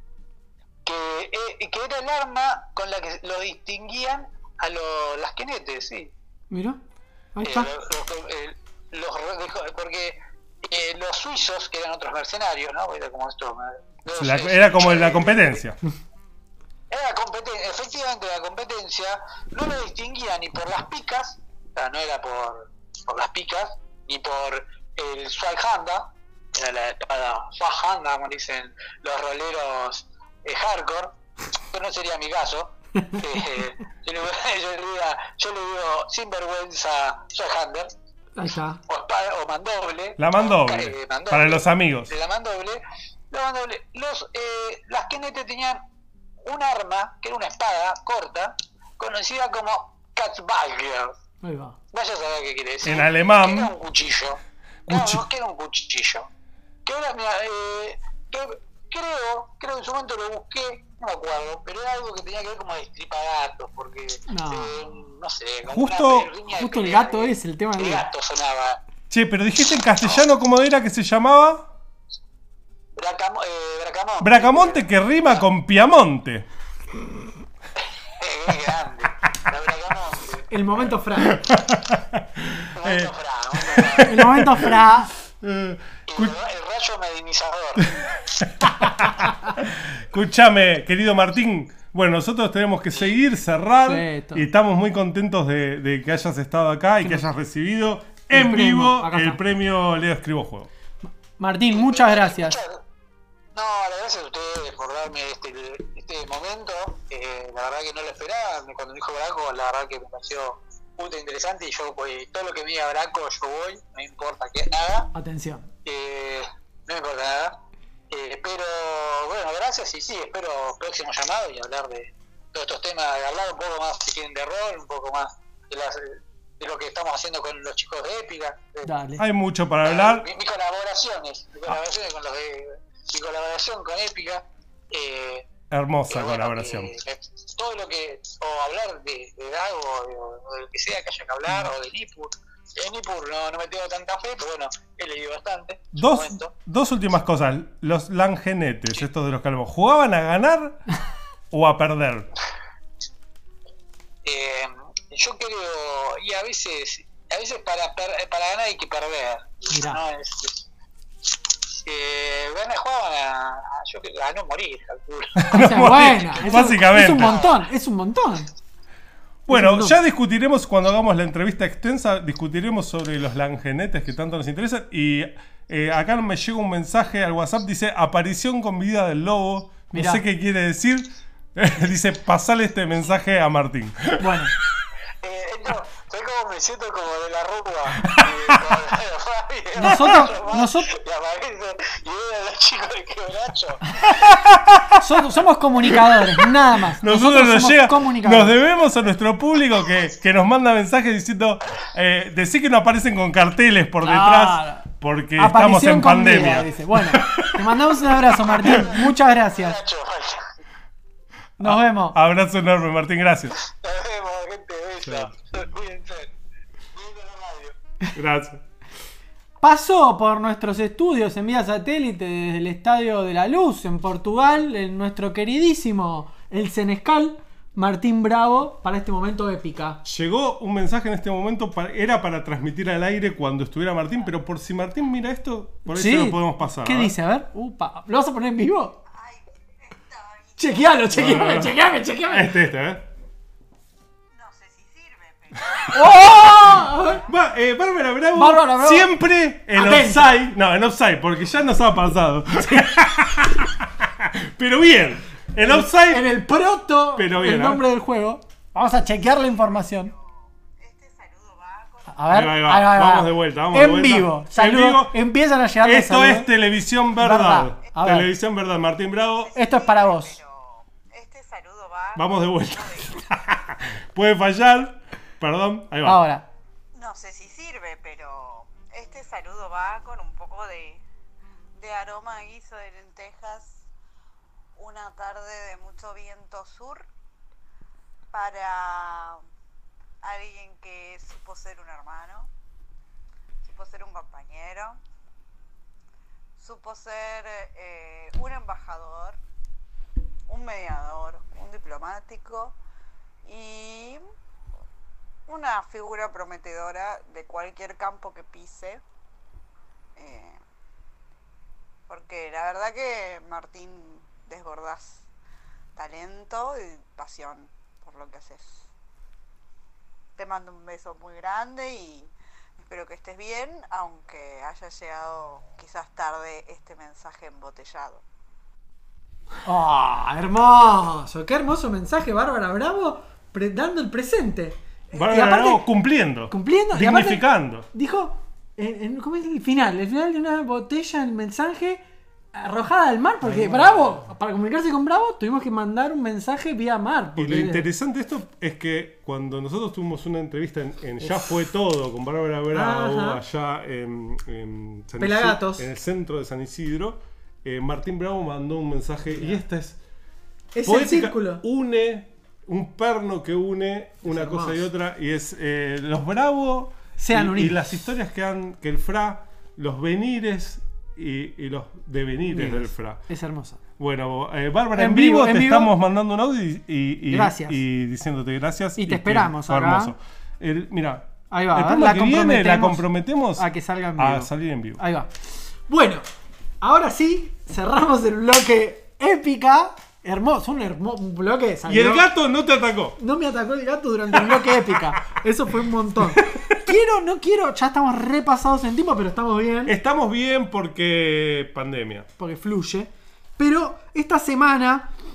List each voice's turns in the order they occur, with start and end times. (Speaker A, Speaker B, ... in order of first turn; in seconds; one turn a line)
Speaker A: 0.8-6.1
Speaker B: 6.5-6.8
Speaker B: 7.4-7.7
Speaker A: 7.4-15.6
Speaker C: 14.1-15.8
Speaker A: 16.9-31.2
Speaker A: 31.7-37.9
Speaker B: 33.0-33.2
Speaker B: 38.4-38.8
Speaker A: 38.9-45.8
Speaker C: 40.2-42.1
Speaker A: 46.5-51.2
Speaker B: 51.4-51.8
Speaker A: 51.9-56.3
Speaker C: 52.8-53.7
Speaker C: 54.9-55.2
Speaker A: 56.9-68.8
Speaker B: 64.3-64.8
Speaker C: 65.7-66.3
Speaker B: 66.6-68.1
Speaker C: 69.1-71.7
Speaker A: 73.0-75.4
Speaker C: 74.2-76.5
Speaker A: 78.2-80.5
Speaker B: 80.5-81.4
Speaker C: 81.3-84.8
Speaker A: 82.8-84.2
Speaker B: 84.0-85.1
Speaker C: 85.4-86.3
Speaker A: 86.1-88.0
Speaker C: 88.4-100.7
Speaker B: 88.8-89.5
Speaker B: 93.8-94.5
Speaker B: 98.3-99.4
Speaker B: 101.0-102.6
Speaker A: 101.7-102.8
Speaker A: 103.5-115.1
Speaker B: 115.1-115.7
Speaker A: 115.8-117.5
Speaker A: 118.1-128.9
Speaker B: 128.8-129.2
Speaker C: 129.2-130.3
Speaker A: 129.8-135.5
Speaker C: 135.7-136.9
Speaker A: 136.1-146.5
Speaker C: 145.9-150.8
Speaker C: 151.5-152.3
Speaker A: 154.2-160.7
Speaker B: 159.7-160.0
Speaker A: 161.7-165.7
Speaker C: 165.4-167.4
Speaker B: 165.5-168.5
Speaker A: 166.4-167.6
Speaker C: 169.5-184.4
Speaker B: 169.5-170.0
Speaker B: 179.9-180.2
Speaker B: 184.2-184.5
Speaker A: 185.2-193.8
Speaker C: 188.0-188.8
Speaker B: 189.8-190.9
Speaker C: 189.8-190.2
Speaker C: 194.1-195.0
Speaker B: 195.0-198.6
Speaker C: 195.9-196.5
Speaker C: 197.0-207.8
Speaker B: 204.0-209.8
Speaker C: 208.5-208.9
Speaker A: 208.7-210.5
Speaker B: 211.6-212.2
Speaker C: 211.6-213.6
Speaker A: 213.6-216.3
Speaker C: 215.0-215.3
Speaker A: 216.9-217.8
Speaker C: 218.2-218.6
Speaker B: 219.6-230.0
Speaker C: 230.0-237.1
Speaker B: 235.9-239.0
Speaker D: 239.1-240.9
Speaker B: 240.6-242.5
Speaker C: 241.1-243.1
Speaker D: 244.3-246.4
Speaker B: 245.9-247.2
Speaker C: 247.2-256.4
Speaker B: 248.3-249.1
Speaker B: 249.7-250.3
Speaker B: 255.6-260.1
Speaker C: 257.1-257.9
Speaker D: 259.4-262.2
Speaker B: 262.1-266.5
Speaker C: 262.3-265.2
Speaker C: 265.8-269.5
Speaker B: 267.2-268.3
Speaker D: 269.1-273.2
Speaker B: 269.5-270.4
Speaker C: 272.2-276.2
Speaker B: 276.1-276.5
Speaker D: 276.9-281.0
Speaker D: 281.8-283.9
Speaker D: 284.8-287.1
Speaker D: 288.3-289.4
Speaker D: 290.2-292.5
Speaker D: 293.6-295.0
Speaker D: 296.6-299.4
Speaker D: 300.5-302.8
Speaker D: 303.4-304.2
Speaker D: 305.5-309.0
Speaker D: 310.2-310.6
Speaker D: 312.1-315.3
Speaker D: 316.0-318.9
Speaker D: 320.4-328.2
Speaker B: 329.6-335.9
Speaker C: 335.1-337.9
Speaker B: 336.5-342.0
Speaker B: 342.5-347.9
Speaker C: 343.4-344.2
Speaker C: 347.4-360.0
Speaker B: 351.2-351.6
Speaker B: 352.7-353.4
Speaker B: 355.2-355.9
Speaker B: 359.3-359.6
Speaker B: 360.7-361.6
Speaker C: 360.9-373.2
Speaker B: 364.2-364.9
Speaker B: 367.2-368.0
Speaker B: 372.5-373.8
Speaker C: 374.0-385.0
Speaker B: 374.9-375.9
Speaker B: 377.3-377.8
Speaker B: 379.0-380.1
Speaker B: 381.5-385.3
Speaker B: 385.9-386.3
Speaker B: 386.8-392.3
Speaker C: 391.9-393.2
Speaker B: 393.2-399.9
Speaker C: 394.4-394.9
Speaker C: 396.4-396.7
Speaker C: 399.9-402.3
Speaker B: 402.4-405.1